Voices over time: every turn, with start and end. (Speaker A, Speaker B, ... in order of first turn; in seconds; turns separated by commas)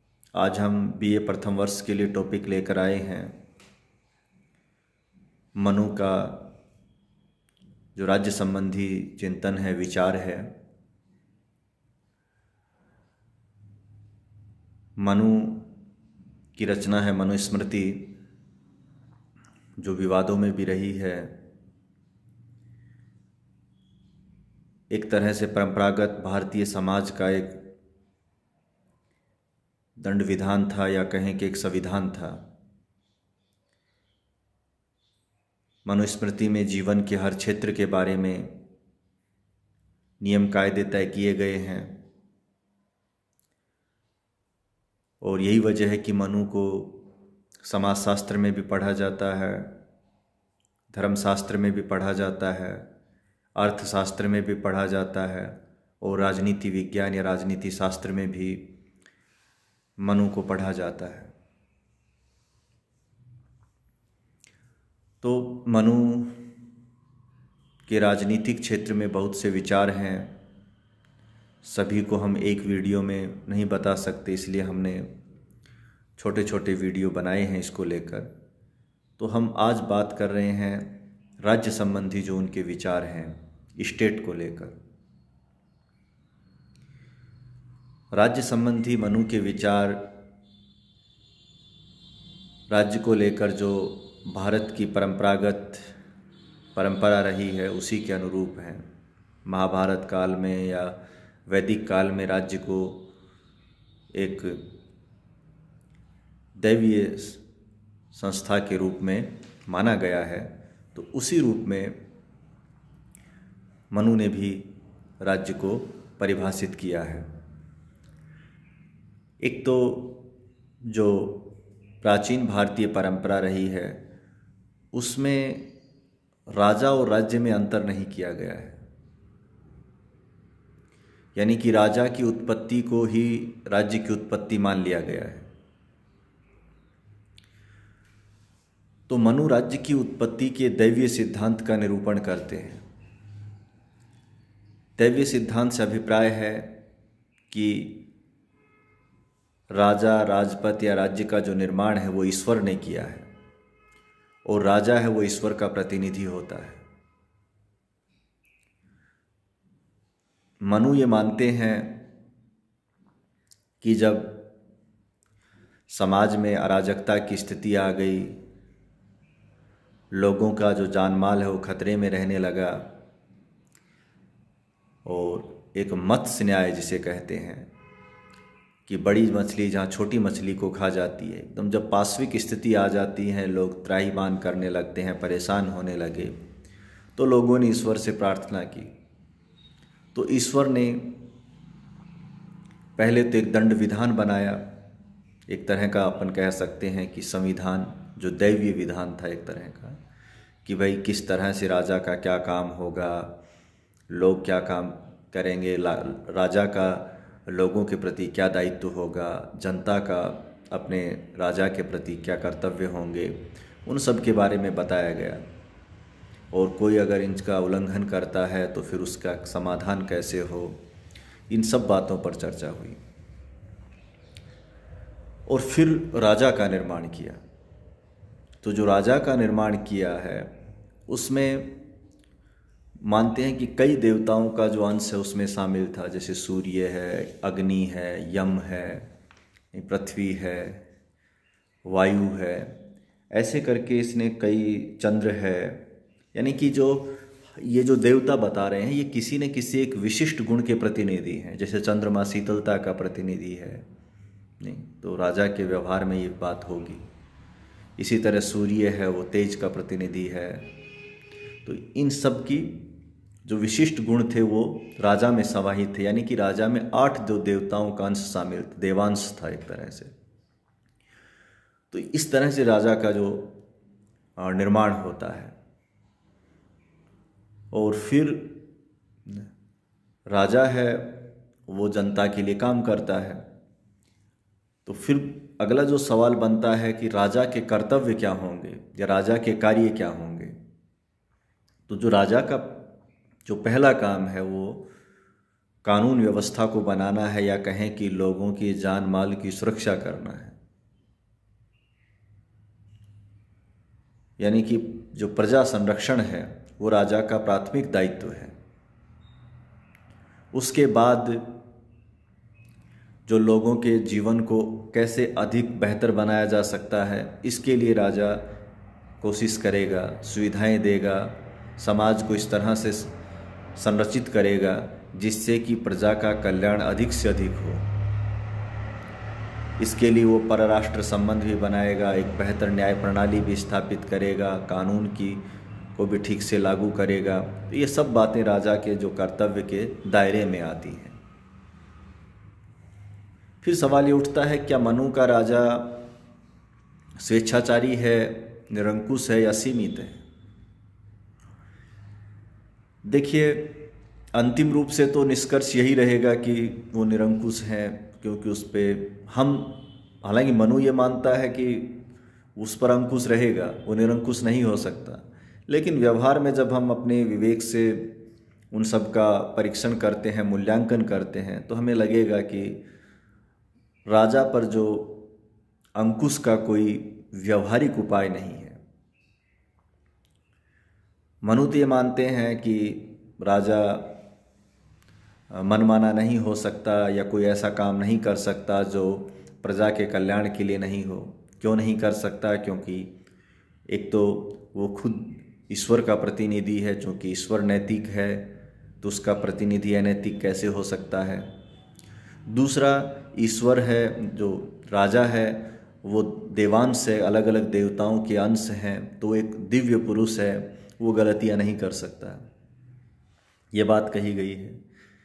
Speaker A: 0.3-3.4, Speaker A: 5.5-6.5, Speaker A: 8.0-10.5, Speaker A: 15.0-15.7, Speaker A: 16.6-18.2, Speaker A: 19.8-21.3, Speaker A: 24.9-27.6, Speaker A: 30.0-32.4, Speaker A: 35.8-38.5, Speaker A: 40.2-42.0, Speaker A: 45.2-47.0, Speaker A: 47.6-49.7, Speaker A: 50.9-52.9, Speaker A: 53.6-58.6, Speaker A: 60.0-61.3, Speaker A: 65.2-66.4, Speaker A: 67.9-70.3, Speaker A: 71.6-75.1, Speaker A: 76.2-78.3, Speaker A: 79.2-84.8, Speaker A: 88.1-90.0, Speaker A: 92.7-95.9, Speaker A: 96.7-98.8, Speaker A: 99.5-103.0, Speaker A: 104.1-104.6, Speaker A: 106.6-107.4, Speaker A: 108.1-112.0, Speaker A: 113.9-117.3, Speaker A: 119.4-120.2, Speaker A: 120.8-124.0, Speaker A: 124.9-125.7, Speaker A: 126.5-128.8, Speaker A: 131.3-135.5, Speaker A: 139.1-142.8, Speaker A: 145.0-146.8, Speaker A: 147.5-148.1, Speaker A: 149.7-153.3, Speaker A: 154.4-156.8, Speaker A: 160.7-162.0, Speaker A: 163.8-164.4, Speaker A: 165.9-168.4, Speaker A: 170.1-172.9, Speaker A: 175.0-177.7, Speaker A: 178.9-186.3, Speaker A: 187.2-188.9, Speaker A: 190.1-191.2, Speaker A: 193.0-194.7, Speaker A: 195.5-200.0, Speaker A: 200.7-203.3, Speaker A: 204.1-215.4, Speaker A: 216.5-220.8, Speaker A: 221.5-223.0, Speaker A: 225.5-227.4, Speaker A: 228.6-230.5, Speaker A: 231.1-231.8, Speaker A: 233.0-239.1, Speaker A: 239.7-240.8, Speaker A: 241.8-242.8, Speaker A: 243.3-245.8, Speaker A: 246.3-253.8, Speaker A: 254.6-257.1, Speaker A: 258.0-260.7, Speaker A: 261.6-262.9, Speaker A: 263.4-270.1, Speaker A: 271.9-273.6, Speaker A: 274.4-275.5, Speaker A: 277.7-278.6, Speaker A: 280.3-283.4, Speaker A: 284.9-290.6, Speaker A: 291.9-292.9, Speaker A: 293.4-294.9, Speaker A: 295.8-300.6, Speaker A: 304.4-308.5, Speaker A: 310.5-311.5, Speaker A: 313.3-318.4, Speaker A: 319.2-323.1, Speaker A: 323.8-327.9, Speaker A: 329.8-335.4, Speaker A: 335.9-341.2, Speaker A: 343.6-346.0, Speaker A: 347.2-350.2, Speaker A: 353.1-362.0, Speaker A: 362.6-368.1, Speaker A: 368.7-372.8, Speaker A: 374.1-375.3, Speaker A: 376.0-378.8, Speaker A: 381.4-384.2, Speaker A: 385.5-393.1, Speaker A: 393.9-401.5, Speaker A: 402.5-412.4, Speaker A: 413.7-414.8